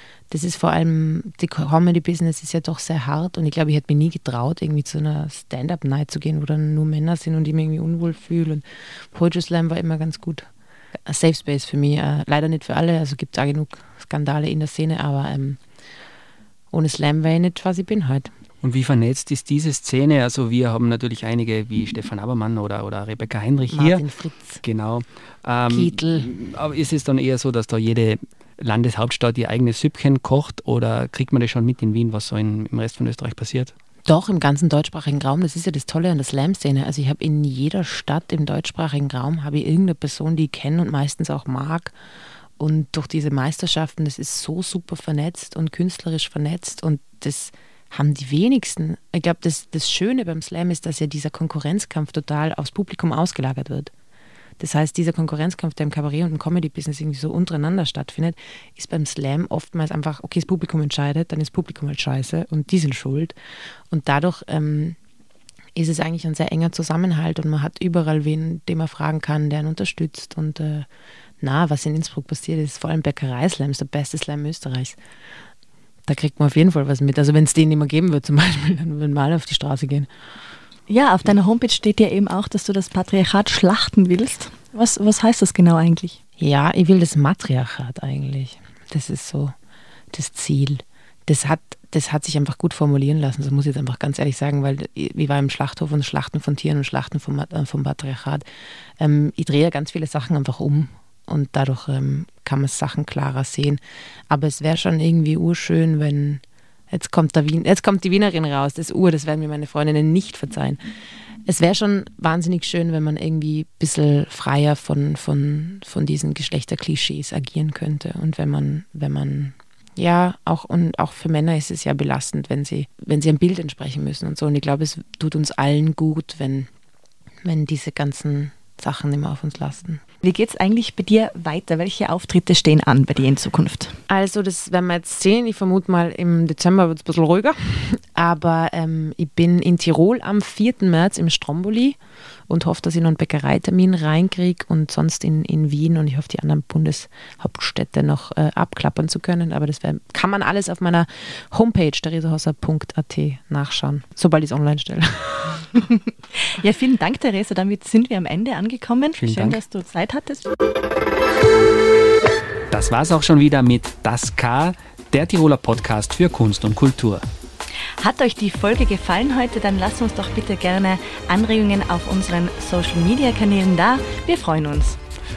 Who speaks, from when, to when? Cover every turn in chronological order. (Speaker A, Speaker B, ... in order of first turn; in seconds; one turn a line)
Speaker A: 0.3-10.5
Speaker A: 11.1-15.6
Speaker A: 16.7-18.3
Speaker B: 18.6-24.0
Speaker A: 23.7-24.6
Speaker B: 24.6-33.7
Speaker A: 25.7-26.3
Speaker A: 34.1-41.9
Speaker A: 42.6-53.9
Speaker A: 54.6-63.4
Speaker A: 63.9-65.0
Speaker A: 65.8-70.9
Speaker A: 71.4-75.0
Speaker A: 76.1-80.1
Speaker C: 80.9-86.2
Speaker A: 86.4-89.5
Speaker A: 90.1-98.5
Speaker A: 99.0-110.8
Speaker A: 111.5-126.7
Speaker A: 127.4-130.0
Speaker C: 130.2-133.9
Speaker A: 134.1-142.0
Speaker A: 142.5-155.7
Speaker C: 155.8-160.5
Speaker B: 159.2-159.6
Speaker B: 162.7-167.2
Speaker C: 168.0-175.0